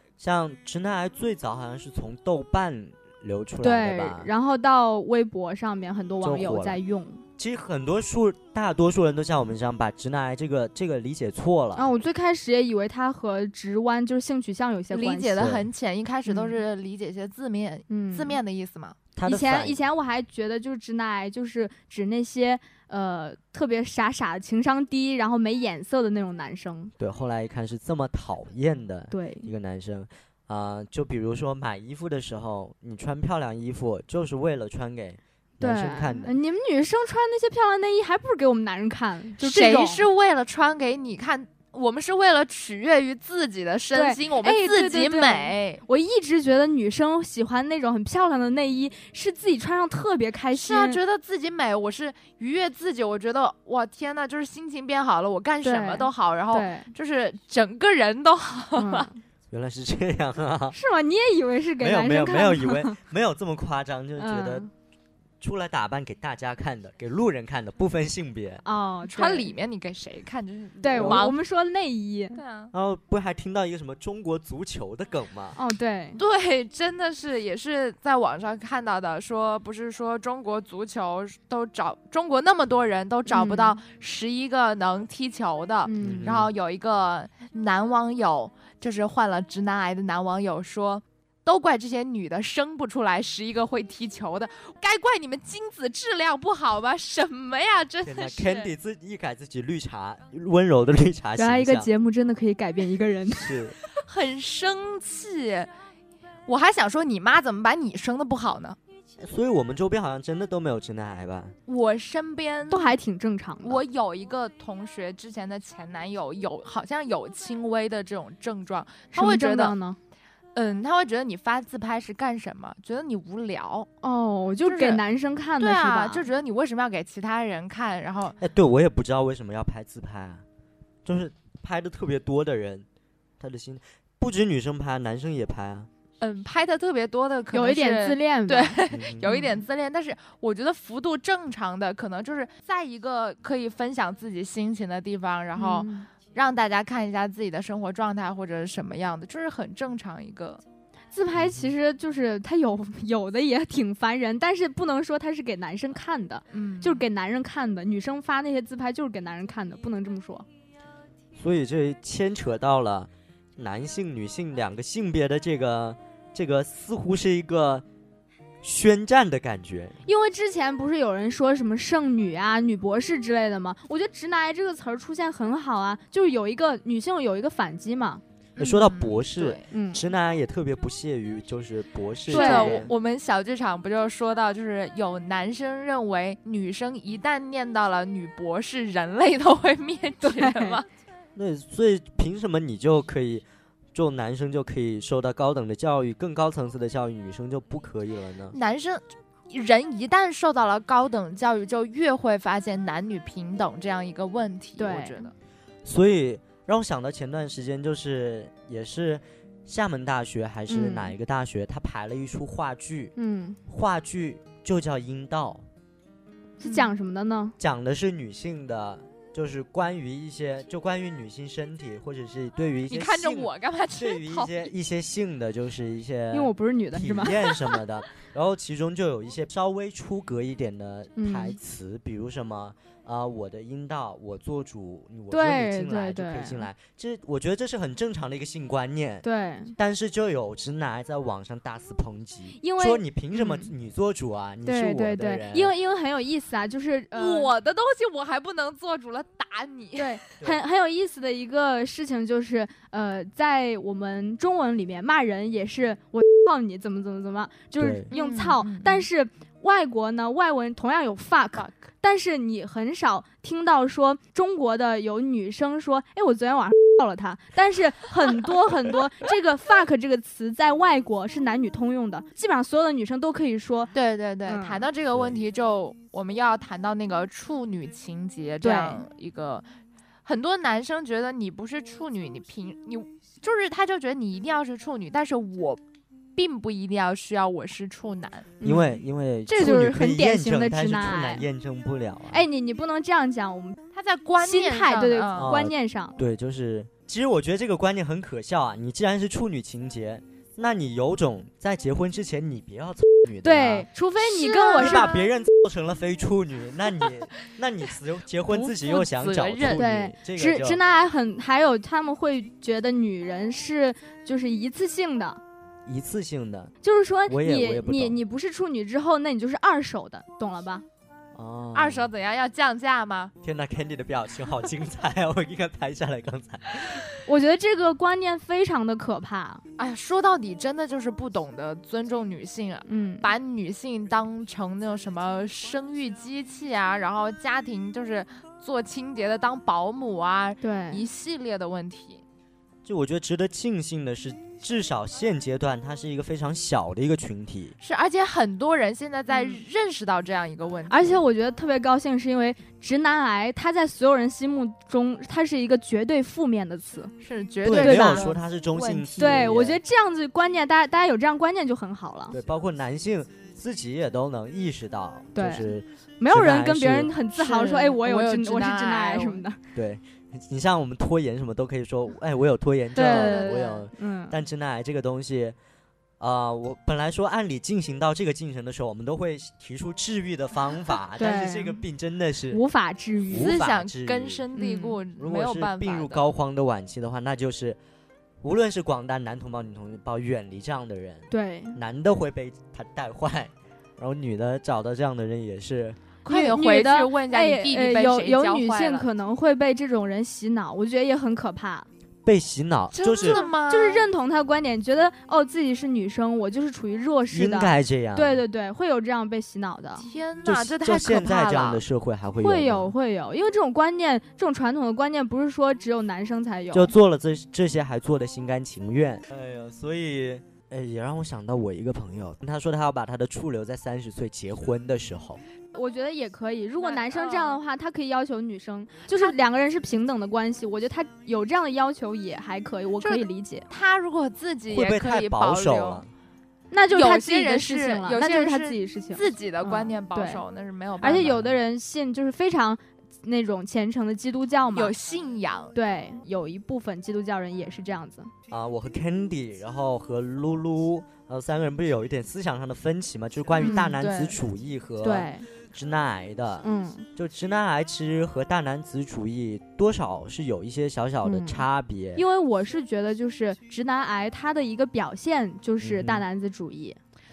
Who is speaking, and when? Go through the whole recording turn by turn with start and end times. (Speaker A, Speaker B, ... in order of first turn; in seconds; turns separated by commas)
Speaker A: 0.2-4.3, Speaker B: 3.6-7.2, Speaker A: 6.2-6.8, Speaker A: 7.4-11.9, Speaker B: 11.7-15.4, Speaker C: 14.9-19.0, Speaker A: 15.4-15.7, Speaker B: 16.3-16.6, Speaker B: 17.9-18.4, Speaker A: 19.1-19.8, Speaker B: 19.2-26.9, Speaker A: 27.0-36.3, Speaker B: 29.1-29.5, Speaker B: 35.6-40.0, Speaker C: 39.4-45.8, Speaker B: 43.9-51.0, Speaker C: 50.5-59.1, Speaker B: 55.6-56.9, Speaker B: 58.7-59.2, Speaker A: 59.5-60.8, Speaker B: 60.7-63.0, Speaker A: 61.8-64.7, Speaker B: 64.2-64.7, Speaker A: 65.4-68.6, Speaker B: 68.6-69.5, Speaker C: 69.0-71.4, Speaker B: 70.8-72.4, Speaker A: 71.0-71.3, Speaker C: 72.3-72.7, Speaker A: 72.7-75.6, Speaker B: 75.6-76.2, Speaker C: 76.2-98.7, Speaker B: 83.3-83.8, Speaker B: 85.8-86.3, Speaker A: 86.0-86.5, Speaker A: 98.0-101.9, Speaker B: 101.4-103.5, Speaker A: 103.3-103.8, Speaker C: 103.9-105.7, Speaker C: 106.5-108.8, Speaker A: 109.2-111.5, Speaker C: 111.7-112.9, Speaker B: 112.7-113.8, Speaker C: 113.6-119.8, Speaker B: 119.1-120.0, Speaker C: 120.5-123.9, Speaker B: 124.0-126.2, Speaker C: 124.6-125.0, Speaker C: 125.6-128.4, Speaker A: 128.4-130.4, Speaker A: 131.0-132.8, Speaker A: 133.4-135.9, Speaker C: 136.2-150.6, Speaker B: 137.5-139.6, Speaker A: 138.9-139.3, Speaker B: 145.6-146.1, Speaker B: 151.1-160.4, Speaker A: 151.4-151.7, Speaker C: 156.5-157.0, Speaker A: 161.3-167.8, Speaker A: 168.6-170.0, Speaker B: 170.1-178.2, Speaker C: 178.6-179.6, Speaker A: 178.6-182.9, Speaker B: 179.7-180.0, Speaker C: 182.3-190.8, Speaker B: 182.3-182.9, Speaker B: 190.2-190.8, Speaker A: 191.3-198.6, Speaker C: 198.5-205.3, Speaker B: 204.8-205.2, Speaker A: 205.8-213.1, Speaker B: 210.7-211.1, Speaker B: 213.2-213.6, Speaker A: 213.7-215.6, Speaker B: 216.6-217.5, Speaker C: 216.6-216.9, Speaker A: 217.6-239.2, Speaker C: 222.9-224.7, Speaker B: 226.3-227.4, Speaker B: 231.2-231.6, Speaker B: 235.3-236.7, Speaker B: 239.2-239.7, Speaker A: 239.8-245.7, Speaker B: 242.6-243.7, Speaker B: 244.7-247.5, Speaker C: 247.1-250.2, Speaker B: 250.0-273.9, Speaker A: 257.8-258.1, Speaker C: 258.1-259.1, Speaker C: 273.9-279.6, Speaker B: 274.5-274.8, Speaker A: 275.1-275.4, Speaker B: 278.6-279.0, Speaker C: 280.2-285.8, Speaker C: 286.4-288.7, Speaker B: 288.6-291.4, Speaker A: 288.6-292.4, Speaker B: 292.3-293.8, Speaker C: 293.9-295.5, Speaker B: 294.4-296.2, Speaker A: 295.4-303.9, Speaker B: 303.4-305.1, Speaker C: 304.2-305.3, Speaker A: 304.8-310.8, Speaker C: 308.5-309.8, Speaker B: 309.7-315.4, Speaker A: 315.9-316.7, Speaker B: 316.8-320.8, Speaker A: 317.3-318.2, Speaker A: 321.3-322.1, Speaker C: 321.7-323.3, Speaker A: 323.4-327.0, Speaker B: 327.2-329.6, Speaker C: 329.8-342.2, Speaker B: 332.9-333.3, Speaker B: 340.6-341.0, Speaker A: 342.8-347.8, Speaker C: 347.8-351.2, Speaker B: 349.3-349.6, Speaker B: 350.9-357.1, Speaker C: 357.2-359.5, Speaker A: 357.6-359.8, Speaker B: 357.7-358.3, Speaker B: 359.2-362.4, Speaker A: 362.3-367.1, Speaker B: 365.3-369.6, Speaker C: 367.3-369.4, Speaker A: 369.7-375.6, Speaker B: 372.9-374.4, Speaker C: 372.9-373.8, Speaker A: 376.2-382.6, Speaker B: 381.2-381.8, Speaker B: 382.5-383.5, Speaker A: 383.3-384.4, Speaker C: 383.3-386.3, Speaker B: 384.5-385.0, Speaker A: 385.2-387.8, Speaker A: 388.4-396.0, Speaker B: 391.3-391.8, Speaker C: 396.2-399.1, Speaker B: 396.3-401.9, Speaker A: 402.2-403.4, Speaker C: 402.9-404.1, Speaker B: 403.2-410.1, Speaker A: 407.3-408.4, Speaker C: 410.0-411.8, Speaker A: 410.4-412.9, Speaker B: 412.4-416.9, Speaker A: 416.7-425.4, Speaker B: 425.7-433.7, Speaker C: 426.8-427.6, Speaker C: 433.0-436.0, Speaker A: 434.7-436.1, Speaker B: 436.7-440.4, Speaker C: 436.9-441.5, Speaker B: 441.0-444.9, Speaker C: 444.7-445.7, Speaker B: 445.7-448.3, Speaker A: 448.5-462.2, Speaker B: 453.6-453.9, Speaker C: 453.6-454.4, Speaker B: 455.0-455.5, Speaker B: 456.6-457.1, Speaker B: 461.2-467.0, Speaker A: 465.8-466.2